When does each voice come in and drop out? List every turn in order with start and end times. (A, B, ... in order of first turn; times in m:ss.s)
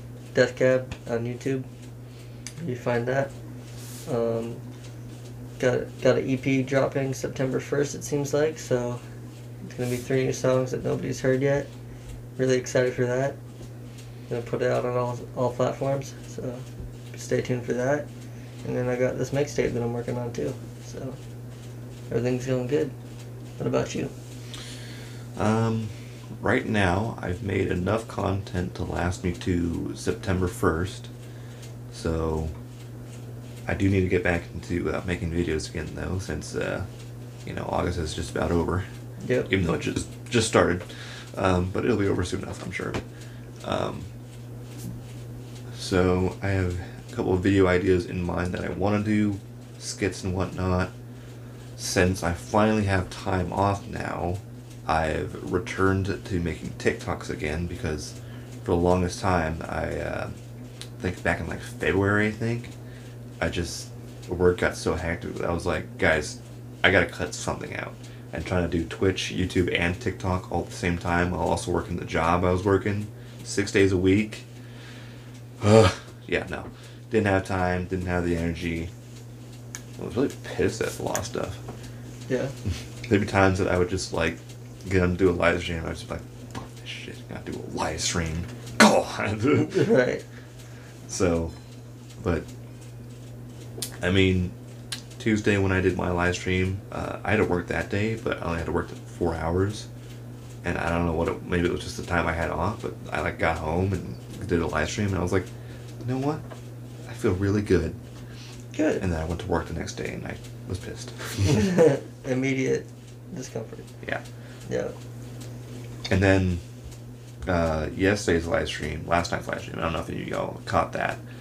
0:00.3-0:01.7 A
0:02.6-0:03.3 A
0:04.1-0:04.6 A
0:05.6-0:09.0 A
0:09.7-0:11.7 A
0:12.4-0:13.4 A
0:14.3-0:18.1 A
0:18.6-0:21.2 A
0:22.1-0:22.9 A
0:23.6-0:24.1 A
0:25.4-0:31.1 B
0:31.9-0:32.5 B
0:33.7-0:36.9 B
0:37.4-0:38.9 B
0:39.2-0:39.5 A
0:39.5-0:43.0 B
0:43.6-0:44.1 B
0:45.7-0:50.9 B
0:51.8-1:00.3 B
1:01.0-1:02.7 B
1:03.4-1:14.5 B
1:15.6-1:18.9 B
1:20.0-1:21.6 B
1:22.3-1:22.5 A
1:23.1-1:29.9 B
1:29.6-1:30.2 A
1:31.1-1:31.5 B
1:32.2-1:32.5 B
1:34.0-1:34.5 B
1:35.2-1:39.9 B
1:40.6-1:45.5 B
1:46.0-1:46.4 B
1:47.1-1:48.0 B
1:48.8-1:49.0 A
1:49.0-1:51.7 B
1:51.5-1:53.9 A
1:54.7-1:54.9 A
1:56.1-1:56.6 B
1:57.5-2:01.2 B